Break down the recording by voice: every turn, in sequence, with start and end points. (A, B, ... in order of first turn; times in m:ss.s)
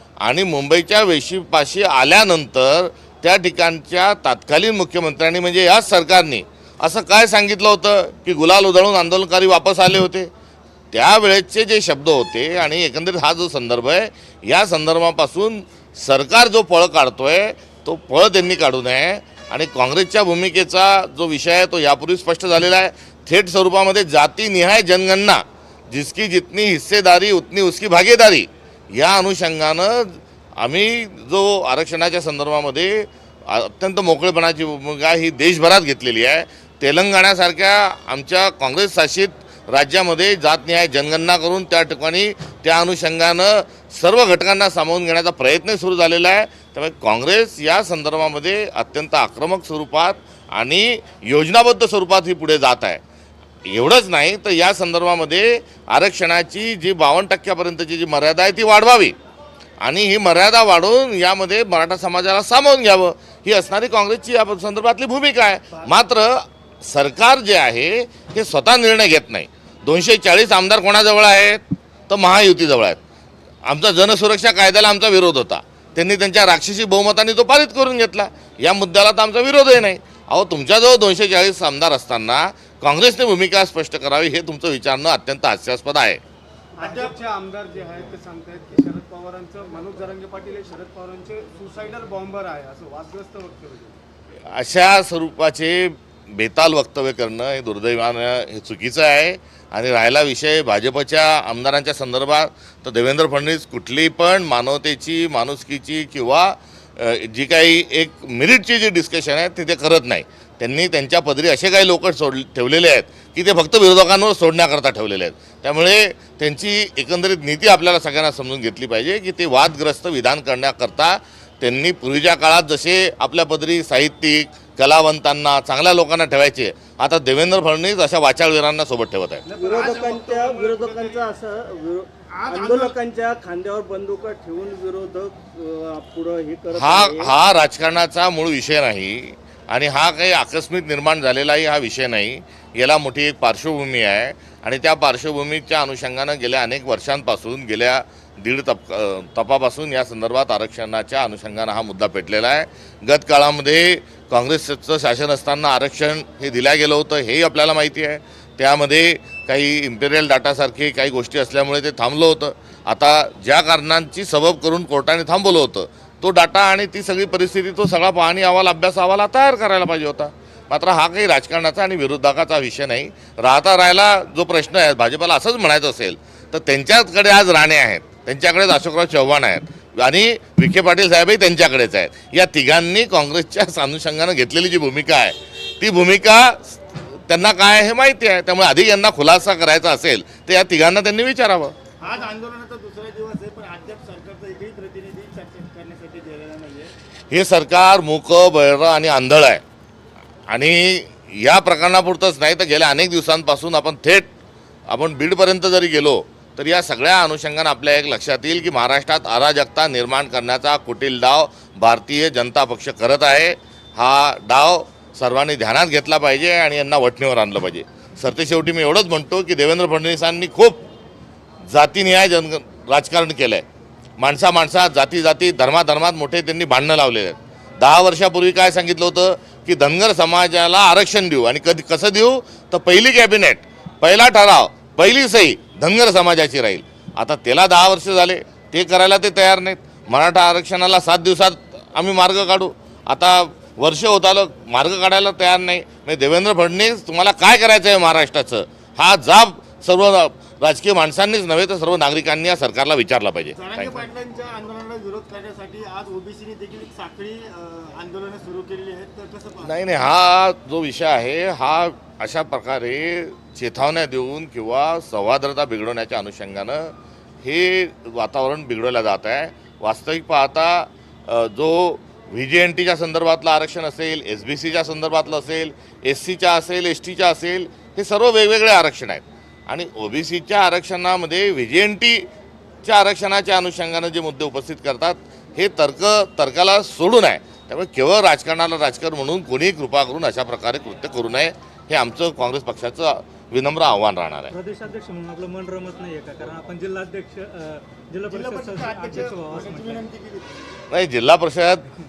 0:00.2-0:10.3 A
0:10.9-0:53.0 A
0:53.7-0:59.2 A
0:59.8-1:13.0 A
1:13.6-1:26.2 A
1:26.8-1:27.2 B
1:26.8-1:34.0 C
1:34.5-2:09.4 A
2:09.5-2:11.0 C
2:09.5-2:11.2 B
2:09.6-2:17.3 D
2:12.3-2:13.0 B
2:16.7-3:11.7 A
3:12.0-3:16.9 B
3:17.3-3:19.6 A
3:20.5-3:24.3 A
3:24.9-3:40.8 A
3:41.7-3:43.6 A
3:44.2-4:14.1 A
4:13.5-4:20.1 B
4:19.6-4:42.3 A
4:42.8-4:54.5 A
4:54.5-5:00.0 E
4:58.3-5:00.7 B
4:59.4-4:59.8 D
5:00.9-5:01.9 A